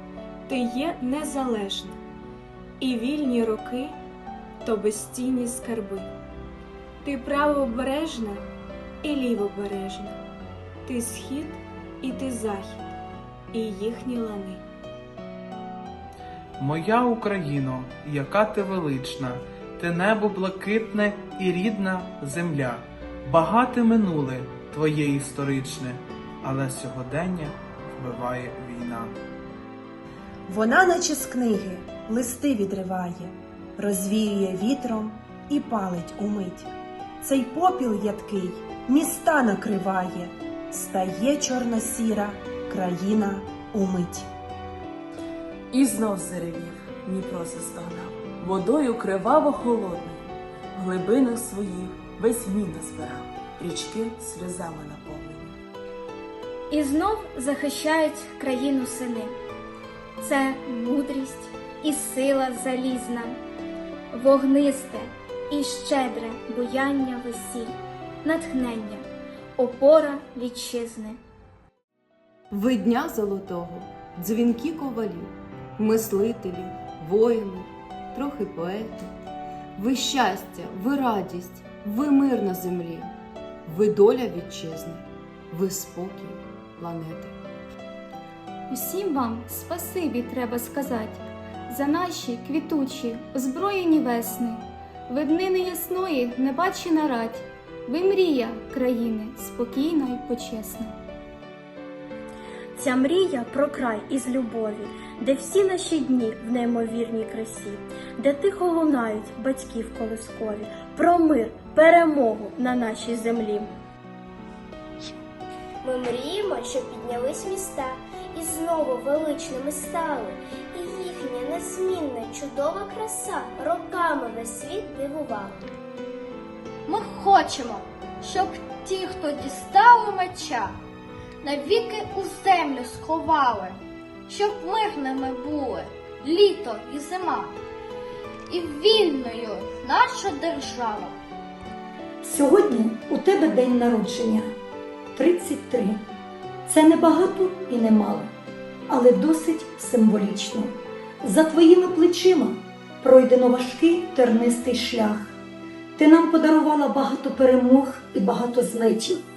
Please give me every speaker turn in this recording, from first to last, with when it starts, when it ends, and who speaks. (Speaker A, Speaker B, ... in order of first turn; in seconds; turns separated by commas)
Speaker A: 0.5-2.0, Speaker A: 2.8-4.0, Speaker A: 4.7-6.1, Speaker A: 7.0-8.4, Speaker A: 9.0-10.2, Speaker A: 10.9-12.8, Speaker A: 13.5-14.6, Speaker B: 16.6-29.1, Speaker C: 30.5-36.7, Speaker C: 37.2-44.3, Speaker D: 45.7-55.5, Speaker E: 56.7-59.3, Speaker E: 60.2-63.4, Speaker E: 64.1-69.0, Speaker E: 69.6-71.2, Speaker F: 72.5-79.1, Speaker F: 79.8-83.1, Speaker F: 83.7-87.3, Speaker E: 88.7-101.0, Speaker G: 102.8-113.7, Speaker H: 115.8-125.7, Speaker I: 126.9-130.7, Speaker I: 131.4-137.5, Speaker I: 138.5-141.2, Speaker J: 142.2-144.5, Speaker J: 145.2-146.0, Speaker J: 146.7-148.3, Speaker J: 148.9-155.3, Speaker J: 156.0-159.2